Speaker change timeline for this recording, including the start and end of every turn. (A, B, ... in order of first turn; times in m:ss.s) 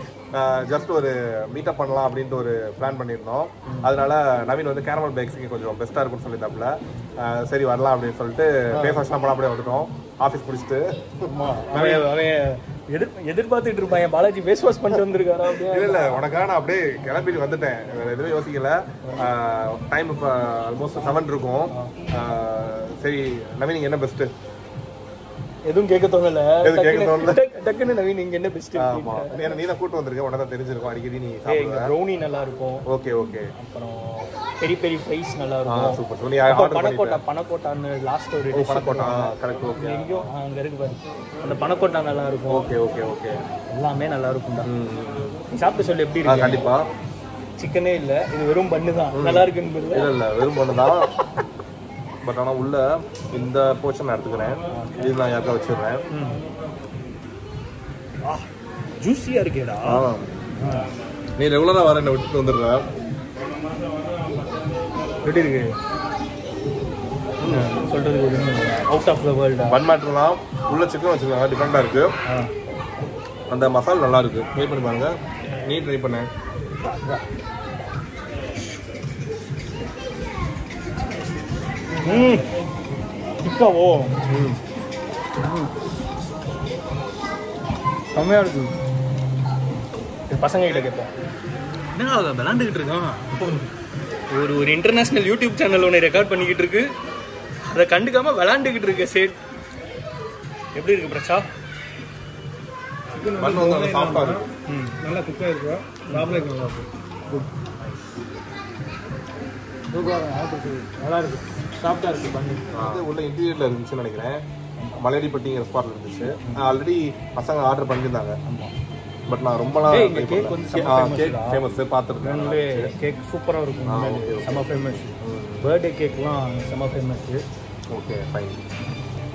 0:00.3-0:12.1 A
0:08.7-0:09.0 B
0:11.3-0:16.2 B
0:15.6-0:24.3 A
0:25.6-0:29.3 B
0:26.6-0:27.4 A
0:28.7-0:31.9 A
0:31.5-0:32.8 B
0:32.9-0:33.5 A
0:33.6-0:42.7 B
0:35.6-0:37.2 A
0:38.5-0:40.3 A
0:42.5-0:43.4 A
0:43.7-0:44.7 B
0:44.6-0:45.3 A
0:45.5-0:46.6 B
0:46.2-0:46.8 A
0:47.6-0:50.1 B
0:49.1-0:51.1 A
0:52.2-0:56.0 A
0:54.7-0:55.1 B
0:56.1-0:56.4 B
0:58.2-1:00.0 B
0:59.8-1:00.3 A
1:00.6-1:00.9 B
1:01.4-1:02.8 A
1:05.2-1:05.7 B
1:07.4-1:07.7 A
1:07.4-1:09.8 B
1:09.7-1:12.2 A
1:13.5-1:16.3 A
1:22.0-1:22.4 B
1:23.4-1:24.2 B
1:24.3-1:24.6 A
1:28.1-1:28.8 B
1:30.3-1:31.1 B
1:31.9-1:33.4 B
1:34.3-1:36.9 B
1:37.7-1:39.4 B
1:40.8-1:41.4 B
1:43.1-1:44.4 C
1:43.4-1:44.4 A
1:44.7-1:45.0 B
1:45.0-1:47.5 C
1:46.1-1:46.4 B
1:49.9-1:52.8 C
1:52.7-1:54.4 A
1:55.0-1:58.4 A
1:56.4-1:56.7 B
1:58.4-1:58.7 B
1:59.3-2:02.9 A
1:59.9-2:01.6 B
2:02.2-2:07.4 B
2:03.8-2:05.7 A
2:07.9-2:08.6 A